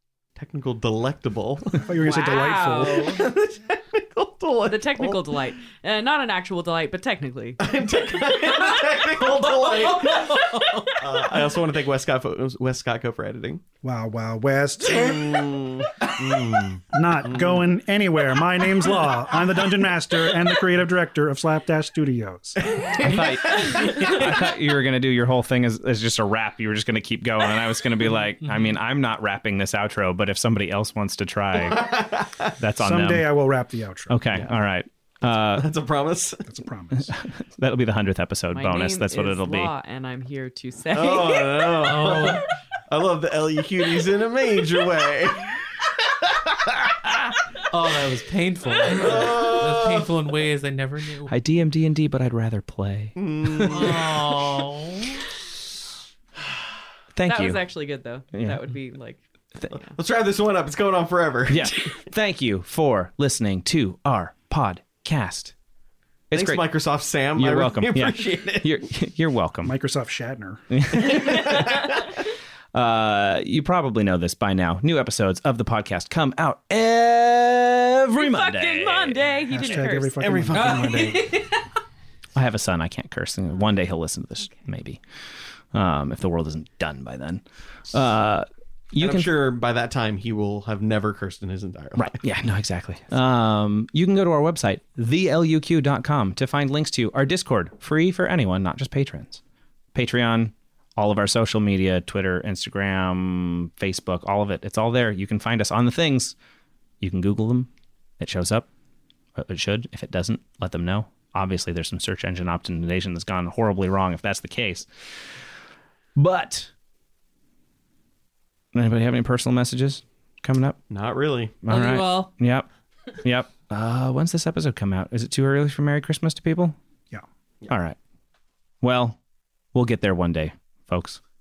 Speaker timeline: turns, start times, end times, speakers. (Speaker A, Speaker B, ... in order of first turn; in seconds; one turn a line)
Speaker A: 0.3-5.5
Speaker B: 1.9-3.2
Speaker C: 2.0-3.2
Speaker C: 4.6-7.6
Speaker A: 7.6-13.6
Speaker B: 13.8-15.6
Speaker A: 14.9-17.6
Speaker B: 16.9-22.6
Speaker A: 22.6-24.2
Speaker D: 23.0-33.3
Speaker A: 31.5-32.5
Speaker B: 32.8-34.2
Speaker D: 34.1-35.7
Speaker A: 35.5-36.5
Speaker B: 36.5-37.1
Speaker D: 37.0-39.7
Speaker C: 38.5-41.8
Speaker A: 40.9-45.6
Speaker E: 41.8-42.5
Speaker A: 46.2-46.8
Speaker E: 47.7-51.3
Speaker A: 48.9-50.1
Speaker D: 51.3-53.7
Speaker A: 53.1-54.3
Speaker E: 53.7-55.2
Speaker D: 57.1-57.6
Speaker C: 57.2-59.8
Speaker D: 58.3-58.6
Speaker A: 59.7-61.7
Speaker D: 61.5-65.5
Speaker D: 66.3-66.8
Speaker A: 66.3-68.7
Speaker D: 67.3-69.7
Speaker B: 69.6-70.7
Speaker D: 70.7-72.1
Speaker A: 70.9-72.1
Speaker D: 72.7-79.2
Speaker C: 78.2-80.3
Speaker B: 79.5-81.4
Speaker A: 79.7-81.2
Speaker E: 80.5-81.4
Speaker D: 82.3-85.0
Speaker D: 85.7-89.4
Speaker A: 89.0-92.2
Speaker D: 92.0-99.4
Speaker D: 99.9-106.3
Speaker D: 107.0-108.7
Speaker D: 109.3-115.4
Speaker D: 116.2-116.7
Speaker D: 118.7-120.8
Speaker A: 120.9-121.5
Speaker D: 121.6-122.7
Speaker E: 121.7-122.3
Speaker D: 123.2-126.8
Speaker D: 127.7-128.0
Speaker D: 128.8-129.2
Speaker D: 129.7-131.2